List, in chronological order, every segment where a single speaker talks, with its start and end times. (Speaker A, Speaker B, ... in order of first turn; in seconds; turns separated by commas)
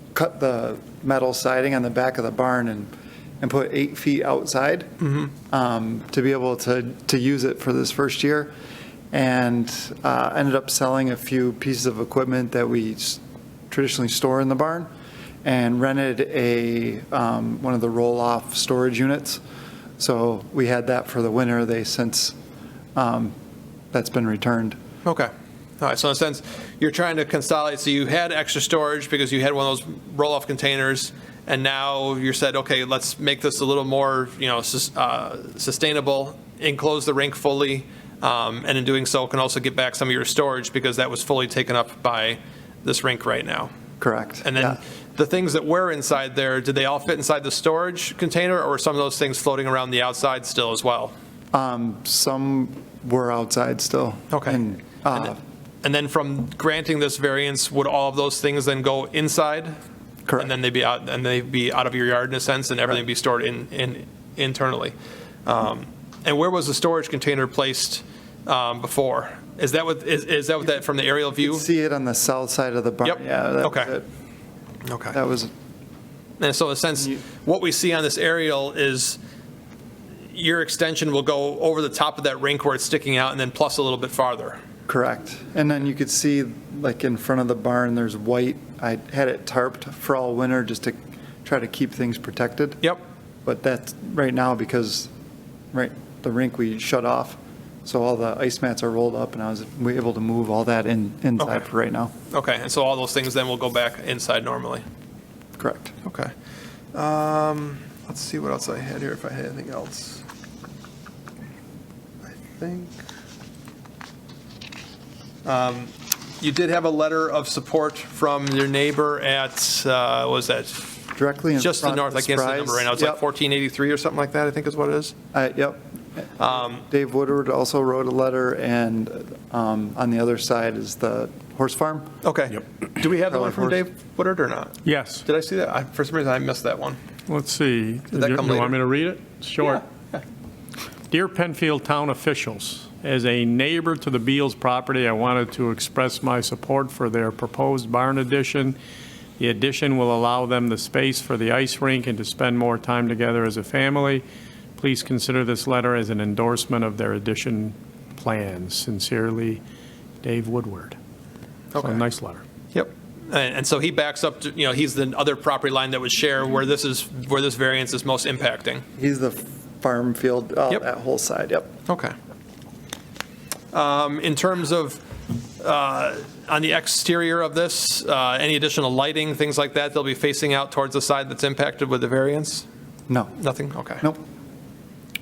Speaker A: 0.1-2.9, Speaker A: 3.4-4.9, Speaker B: 5.0-5.3, Speaker A: 5.5-8.5, Speaker A: 9.1-14.9, Speaker A: 15.4-19.4, Speaker A: 20.0-22.4, Speaker A: 23.0-23.3, Speaker A: 23.9-24.8, Speaker B: 25.0-43.7, Speaker A: 44.0-44.8, Speaker B: 44.4-51.1, Speaker A: 51.5-55.4, Speaker B: 54.3-54.6, Speaker B: 55.8-59.8, Speaker B: 60.4-65.0, Speaker B: 65.5-71.6, Speaker A: 71.4-74.1, Speaker B: 73.0-73.9, Speaker B: 74.9-75.2, Speaker A: 75.1-75.5, Speaker B: 76.4-79.2, Speaker B: 80.3-84.6, Speaker A: 84.9-92.8, Speaker A: 93.5-95.1, Speaker A: 95.7-102.1, Speaker B: 102.3-104.8, Speaker A: 105.6-105.9, Speaker B: 106.0-106.3, Speaker B: 106.9-110.2, Speaker B: 112.3-112.9, Speaker B: 115.5-120.8, Speaker A: 121.2-123.2, Speaker B: 121.6-125.1, Speaker A: 125.3-132.1, Speaker B: 126.4-126.8, Speaker B: 132.2-137.0, Speaker A: 133.3-133.8, Speaker C: 134.9-135.2, Speaker C: 137.3-139.8, Speaker B: 138.1-138.8, Speaker B: 139.6-140.2, Speaker C: 141.1-148.8, Speaker C: 149.4-154.2, Speaker C: 154.8-159.6, Speaker C: 160.2-161.0, Speaker B: 161.7-162.0, Speaker C: 161.8-162.4, Speaker B: 162.7-168.8, Speaker A: 169.0-171.7, Speaker B: 171.9-172.1, Speaker B: 173.7-175.0, Speaker B: 175.6-182.7, Speaker A: 183.1-183.4, Speaker B: 183.4-184.0